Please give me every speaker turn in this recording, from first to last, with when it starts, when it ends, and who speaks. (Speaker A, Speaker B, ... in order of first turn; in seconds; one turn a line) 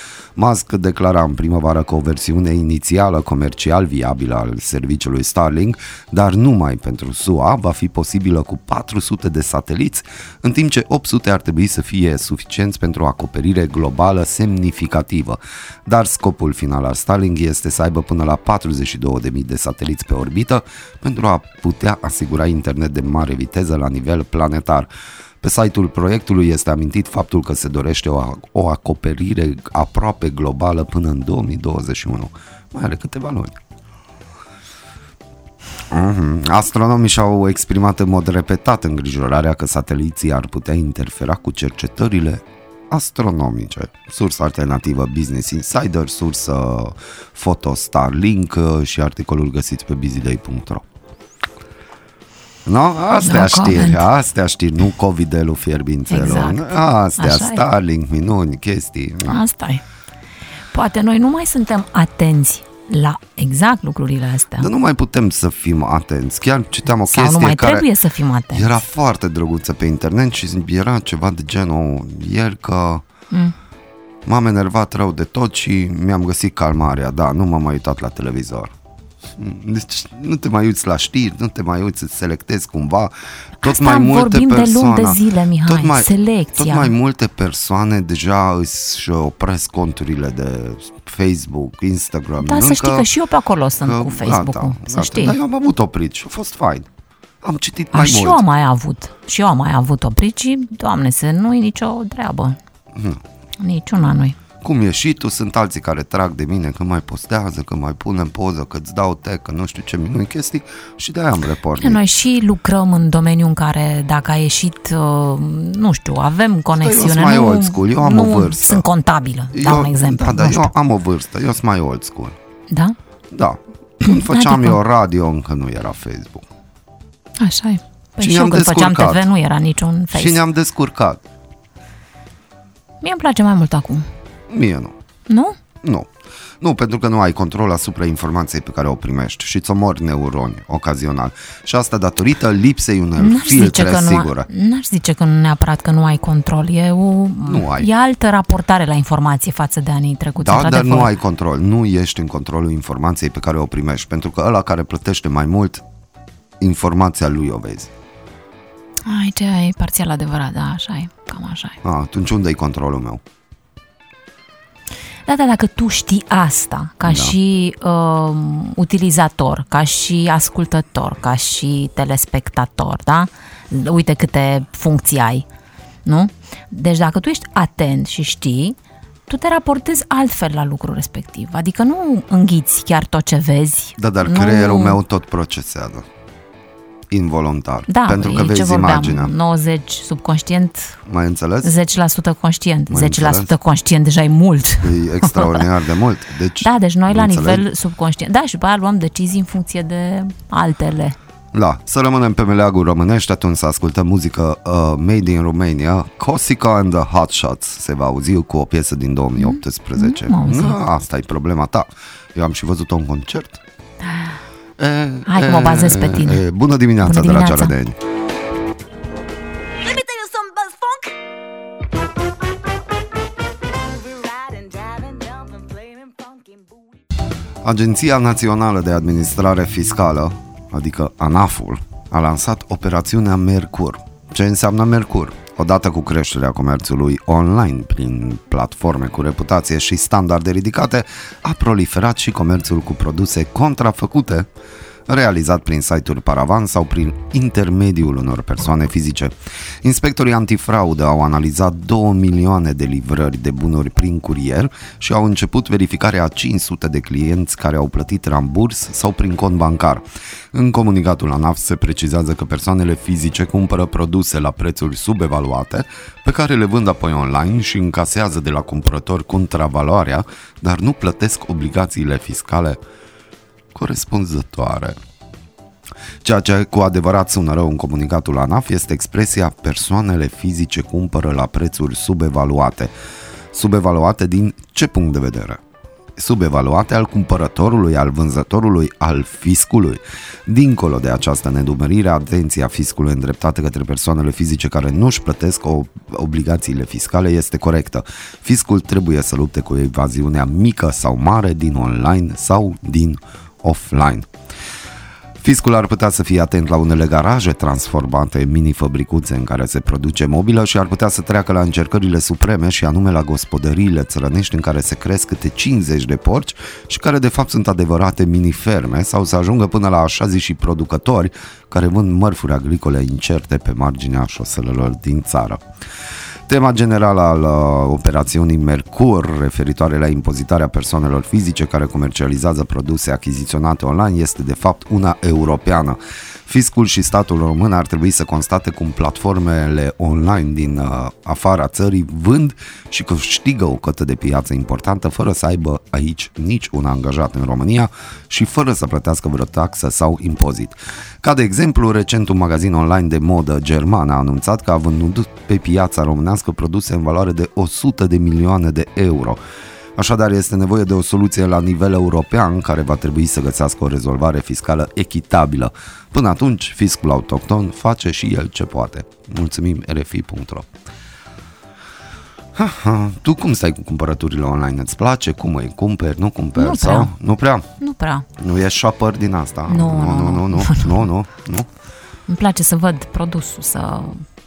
Speaker A: 0.3-24.9
Speaker A: 25.4-33.6
Speaker A: 35.9-50.8
Speaker A: 52.6-59.4
Speaker B: 53.2-54.0
Speaker B: 56.1-57.6
Speaker B: 59.2-59.8
Speaker B: 60.7-64.7
Speaker A: 64.6-67.9
Speaker B: 67.1-68.8
Speaker A: 68.5-73.0
Speaker A: 74.2-78.7
Speaker A: 79.3-93.1
Speaker B: 83.6-86.9
Speaker B: 92.4-95.4
Speaker A: 93.8-96.9
Speaker A: 97.4-98.4
Speaker B: 97.9-102.6
Speaker A: 102.9-103.2
Speaker B: 103.6-104.4
Speaker A: 104.6-112.0
Speaker B: 111.8-120.7
Speaker A: 116.8-118.8
Speaker A: 119.5-122.3
Speaker B: 122.7-123.0
Speaker A: 123.3-126.5
Speaker B: 124.0-124.8
Speaker B: 127.4-130.4
Speaker A: 128.2-129.3
Speaker A: 130.1-131.2
Speaker B: 133.0-134.1
Speaker A: 134.5-134.9
Speaker B: 135.3-135.6
Speaker A: 135.8-136.1
Speaker A: 136.6-144.5
Speaker B: 143.2-151.1
Speaker A: 147.4-147.9
Speaker A: 150.4-155.8
Speaker A: 156.6-157.9
Speaker B: 159.0-161.8
Speaker A: 161.8-163.2
Speaker B: 165.2-175.4
Speaker A: 167.0-167.3
Speaker B: 176.1-178.8
Speaker B: 179.3-185.0
Speaker A: 184.0-186.1
Speaker A: 187.1-189.3
Speaker B: 187.9-191.0
Speaker A: 191.1-191.7
Speaker B: 191.6-195.7
Speaker A: 192.9-193.5
Speaker A: 194.8-197.6
Speaker B: 196.6-201.2
Speaker A: 201.5-213.6
Speaker B: 209.4-210.8
Speaker A: 214.8-218.0
Speaker B: 215.2-216.4
Speaker B: 217.0-217.7
Speaker C: 219.9-221.0
Speaker C: 224.1-226.6
Speaker A: 227.6-244.5
Speaker A: 245.1-272.8
Speaker A: 273.7-275.0
Speaker A: 276.2-282.9
Speaker A: 283.5-285.6
Speaker A: 286.1-304.3
Speaker A: 305.4-325.6
Speaker A: 326.5-359.4
Speaker A: 359.9-370.7
Speaker A: 372.5-377.7
Speaker B: 376.6-377.1
Speaker B: 377.8-378.2
Speaker A: 378.4-381.7
Speaker B: 379.7-381.1
Speaker B: 382.3-384.2